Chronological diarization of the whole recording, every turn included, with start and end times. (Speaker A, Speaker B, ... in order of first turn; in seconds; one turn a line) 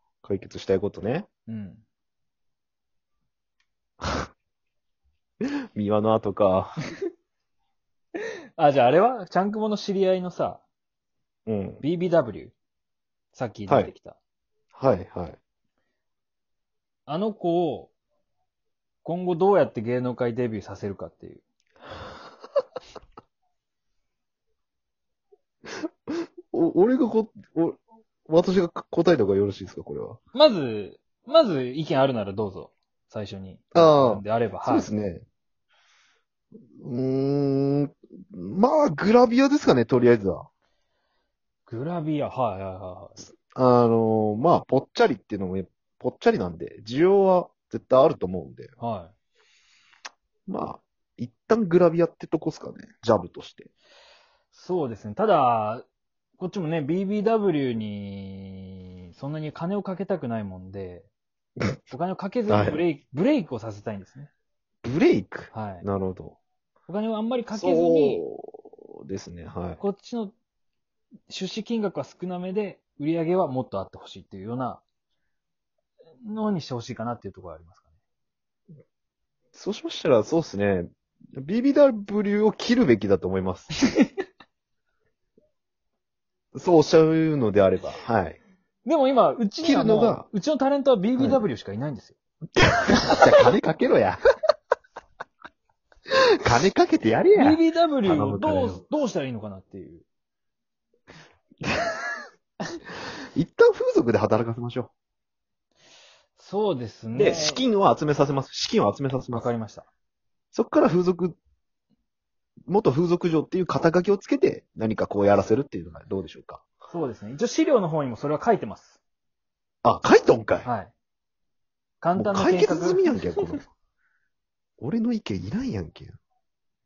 Speaker A: 0.2-1.3
Speaker B: 1.5-1.8
Speaker A: 5.4-6.8
Speaker B: 8.2-10.6
Speaker A: 11.5-11.8
Speaker B: 11.8-12.5
Speaker B: 13.3-14.2
Speaker A: 13.7-13.9
Speaker A: 14.8-15.4
Speaker B: 17.1-17.9
Speaker B: 19.0-21.4
Speaker A: 25.7-30.2
Speaker B: 30.3-34.9
Speaker A: 33.7-35.2
Speaker A: 36.8-40.5
Speaker B: 41.7-43.3
Speaker A: 43.2-48.7
Speaker B: 48.8-49.1
Speaker A: 50.5-53.7
Speaker B: 54.5-55.9
Speaker B: 56.4-61.1
Speaker B: 61.9-64.3
Speaker A: 62.5-62.9
Speaker A: 64.8-66.4
Speaker B: 65.5-65.8
Speaker B: 66.9-68.2
Speaker A: 67.5-69.8
Speaker B: 69.8-70.3
Speaker B: 71.3-74.8
Speaker B: 76.2-77.8
Speaker A: 79.5-83.7
Speaker A: 86.5-88.4
Speaker B: 88.8-92.2
Speaker A: 89.6-90.3
Speaker A: 91.2-91.5
Speaker A: 92.5-94.2
Speaker A: 96.4-98.8
Speaker B: 97.3-100.0
Speaker A: 101.6-102.0
Speaker A: 103.3-104.9
Speaker B: 106.4-107.6
Speaker A: 107.2-109.5
Speaker B: 109.3-109.9
Speaker A: 110.5-111.4
Speaker A: 112.7-116.6
Speaker B: 116.9-119.0
Speaker A: 119.8-120.7
Speaker B: 120.6-120.9
Speaker B: 122.0-123.1
Speaker A: 122.2-123.7
Speaker A: 124.8-126.2